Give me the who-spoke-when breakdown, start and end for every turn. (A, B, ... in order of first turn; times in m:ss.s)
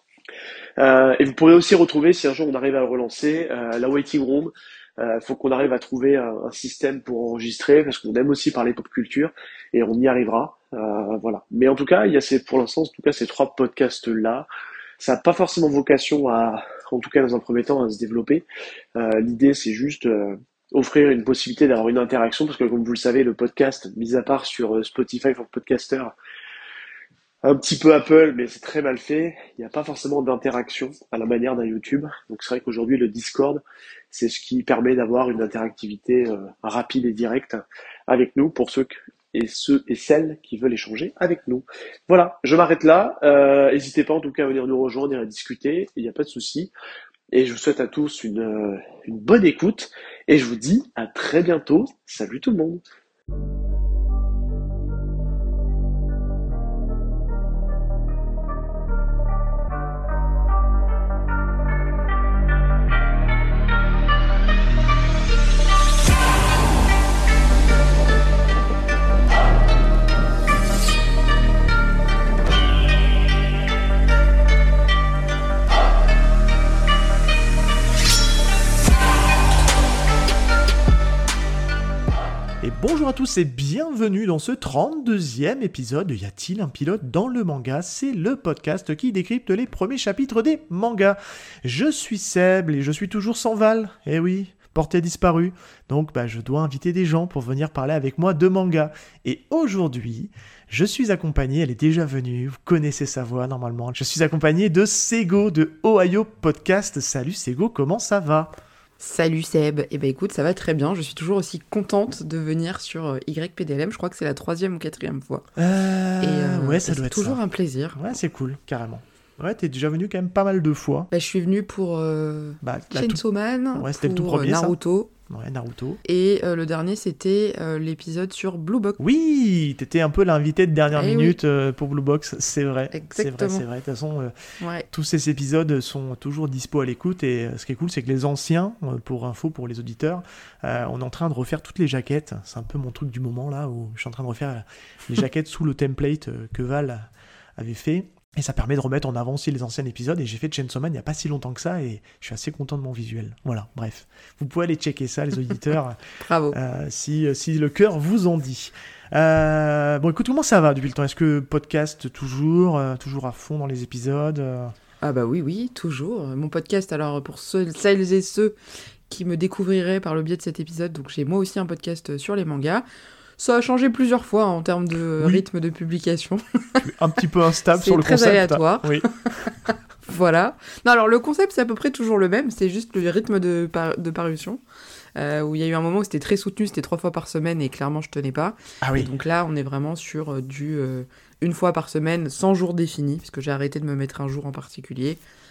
0:00.8-0:14.5 A
0:15.0-0:18.4 A
0:19.0-0:26.1 A
0:27.4-0:46.7 A
0:47.3-0:52.8 A
1:22.6-1:48.5 B
1:49.0-1:55.5 C
1:55.6-1:57.4 B
1:56.2-1:58.0 C
1:58.0-2:01.1 B
2:01.1-2:05.1 C
2:02.6-2:03.2 B
2:03.7-2:04.8 B
2:05.3-2:06.0 B
2:06.0-2:09.0 C
2:09.0-2:14.3 B
2:10.9-2:11.4 C
2:12.9-2:13.6 C
2:14.6-2:14.9 C
2:14.9-2:36.0 B
2:36.2-2:36.6 C
2:36.5-2:44.7 B
2:45.0-2:48.6 C
2:49.1-2:52.8 C
2:53.4-2:56.8 C
2:56.8-2:59.1 B
2:57.7-3:04.6 C
3:05.2-3:15.2 C
3:08.8-3:09.1 B